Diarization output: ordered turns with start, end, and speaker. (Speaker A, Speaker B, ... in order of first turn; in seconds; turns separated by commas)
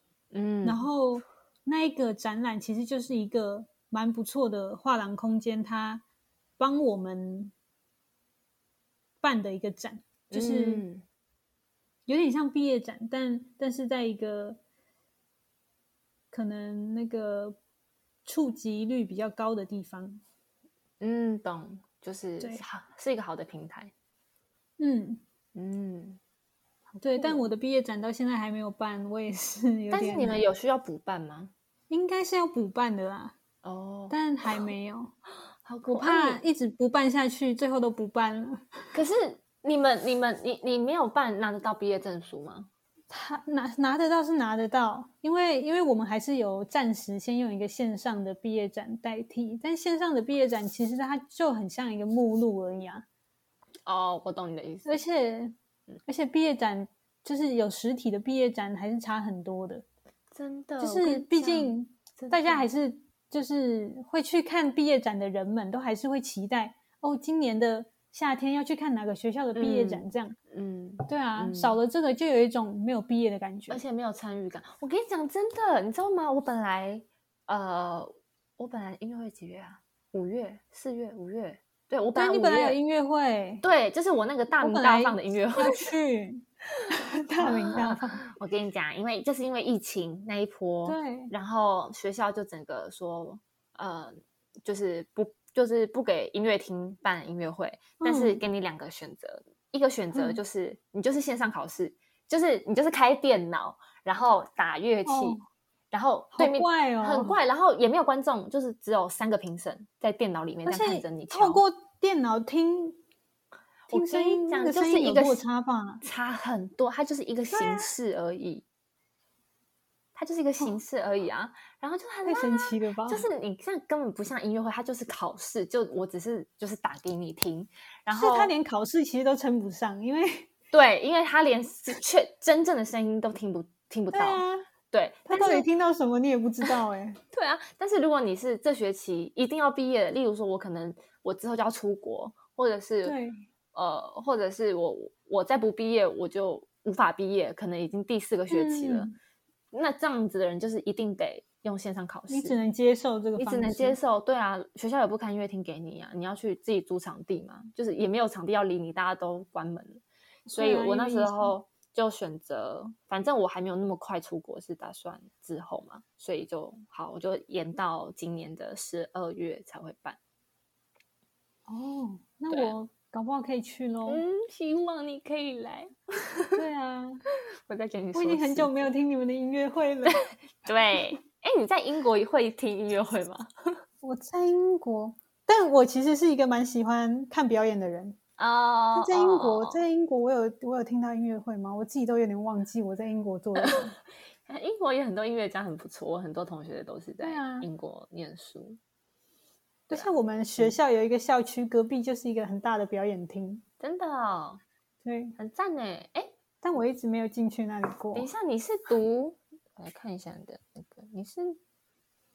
Speaker A: 0.3-0.8, Speaker B: 0.6-6.0, Speaker B: 6.6-7.5, Speaker B: 9.2-10.9, Speaker A: 10.3-11.0, Speaker B: 12.1-14.6, Speaker B: 16.3-17.6, Speaker B: 18.2-20.2, Speaker A: 21.0-23.9, Speaker B: 24.8-25.2, Speaker A: 25.5-26.2, Speaker B: 27.0-30.4, Speaker A: 27.1-27.5, Speaker A: 29.9-31.5, Speaker B: 31.9-33.3, Speaker A: 33.6-34.7, Speaker B: 34.1-35.1, Speaker A: 35.6-36.4, Speaker B: 35.9-38.7, Speaker A: 38.9-42.7, Speaker B: 43.1-53.0, Speaker A: 53.9-55.0, Speaker B: 54.9-55.5, Speaker B: 56.0-59.8, Speaker A: 60.3-62.7, Speaker B: 60.8-70.3, Speaker A: 69.5-71.8, Speaker B: 71.0-73.8, Speaker A: 73.7-82.8, Speaker B: 82.1-83.6, Speaker A: 83.6-85.9, Speaker B: 84.6-88.2, Speaker A: 87.4-105.4, Speaker B: 90.8-91.3, Speaker B: 98.0-98.4, Speaker B: 100.1-100.4, Speaker B: 105.0-105.4, Speaker A: 105.9-111.6, Speaker B: 106.3-107.4, Speaker B: 110.7-113.0, Speaker A: 113.9-115.4, Speaker B: 113.9-116.0, Speaker A: 116.0-118.6, Speaker B: 117.5-117.9, Speaker A: 120.1-128.5, Speaker B: 122.2-123.3, Speaker B: 128.1-130.5, Speaker A: 130.7-135.7, Speaker B: 134.1-134.7, Speaker B: 135.3-137.2, Speaker A: 137.3-143.2, Speaker B: 143.0-143.4, Speaker A: 143.7-149.1, Speaker B: 148.5-149.1, Speaker A: 149.7-152.6, Speaker B: 152.3-154.0, Speaker A: 153.4-170.2, Speaker B: 160.5-161.6, Speaker B: 171.7-174.2, Speaker A: 172.5-172.7, Speaker A: 174.1-176.6, Speaker B: 176.6-177.2, Speaker A: 177.7-178.9, Speaker B: 178.1-180.2, Speaker A: 180.1-183.5, Speaker B: 184.0-188.2, Speaker A: 188.4-189.8, Speaker B: 188.9-193.9, Speaker A: 193.6-198.8, Speaker B: 197.2-197.7, Speaker B: 199.9-203.6, Speaker A: 199.9-200.8, Speaker A: 203.8-204.6, Speaker B: 205.0-205.3, Speaker A: 205.4-206.3, Speaker B: 206.6-208.3, Speaker A: 208.1-211.6